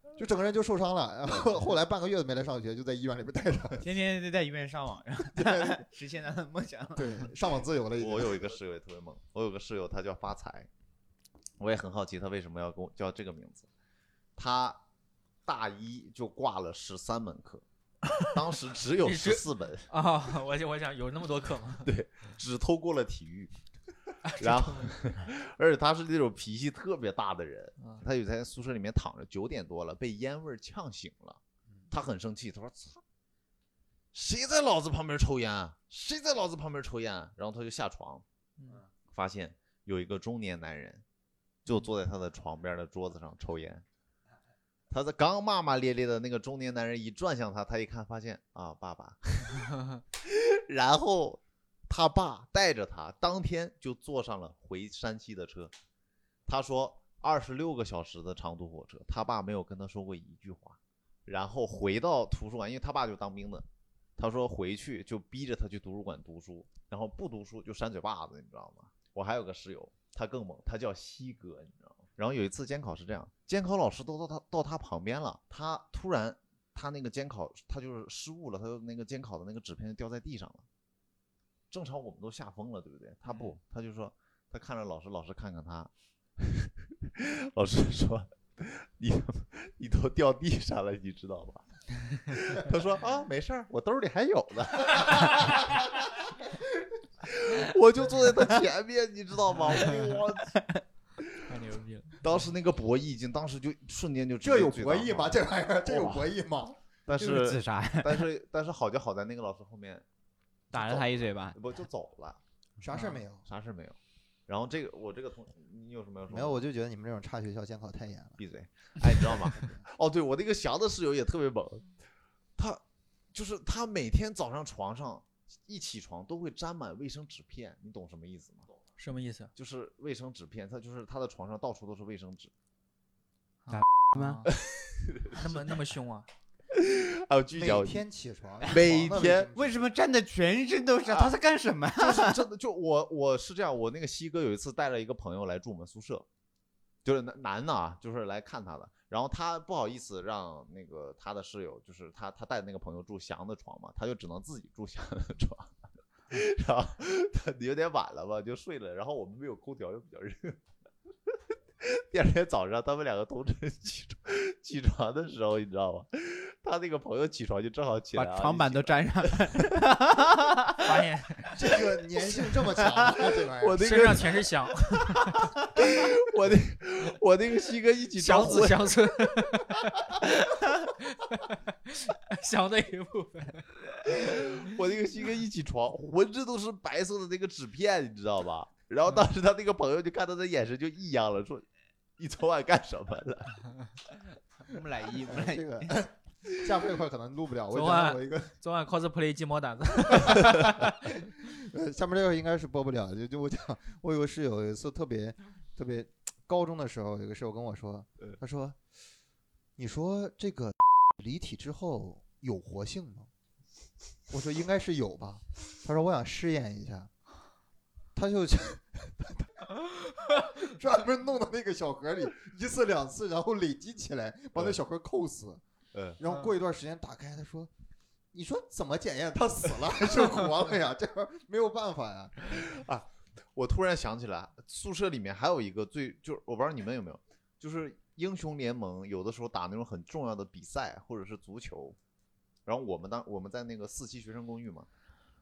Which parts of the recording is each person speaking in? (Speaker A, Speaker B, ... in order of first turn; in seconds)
Speaker A: 0.1-3.8, 5.3-5.8, 7.0-8.4, 104.4-106.8, 112.8-113.4, 116.3-118.4, 137.5-139.8, 171.5-173.8, 195.3-198.5, 201.5-208.8, 209.8-213.3, 214.3-217.1, 218.1-225.6, 226.2-227.7, 228.3-232.5
Speaker B: 3.8-7.3, 100.5-100.8, 107.1-108.2, 110.7-111.6, 133.7-134.5, 139.5-142.4, 168.1-170.8, 194.6-195.9
Speaker C: 8.0-10.7, 11.6-13.7, 14.4-14.8, 15.4-19.9, 21.8-23.5, 24.4-33.0, 34.1-38.2, 39.1-41.0, 41.6-43.8, 44.9-55.7, 56.5-63.6, 64.2-80.6, 81.7-96.5, 97.2-100.6, 102.2-106.3, 107.0-110.0, 110.7-112.4, 113.4-116.6, 118.4-121.9, 122.6-122.8, 123.3-128.7, 129.6-132.5, 134.5-135.7, 136.7-138.0, 138.6-139.5, 141.1-141.3, 141.9-146.2, 147.0-155.7, 156.3-160.6, 161.8-169.6, 173.1-174.5, 175.7-179.1, 184.1-191.6, 192.2-193.6, 225.9-226.2, 232.5-242.0, 242.7-244.9
Speaker D: 19.0-21.9, 24.2-24.9, 38.6-38.8, 83.3-83.5, 99.6-100.1, 101.5-102.3, 112.9-113.2, 129.0-129.5, 133.6-134.5, 135.3-136.3, 170.8-171.6, 173.8-175.5, 178.2-184.5, 197.7-200.9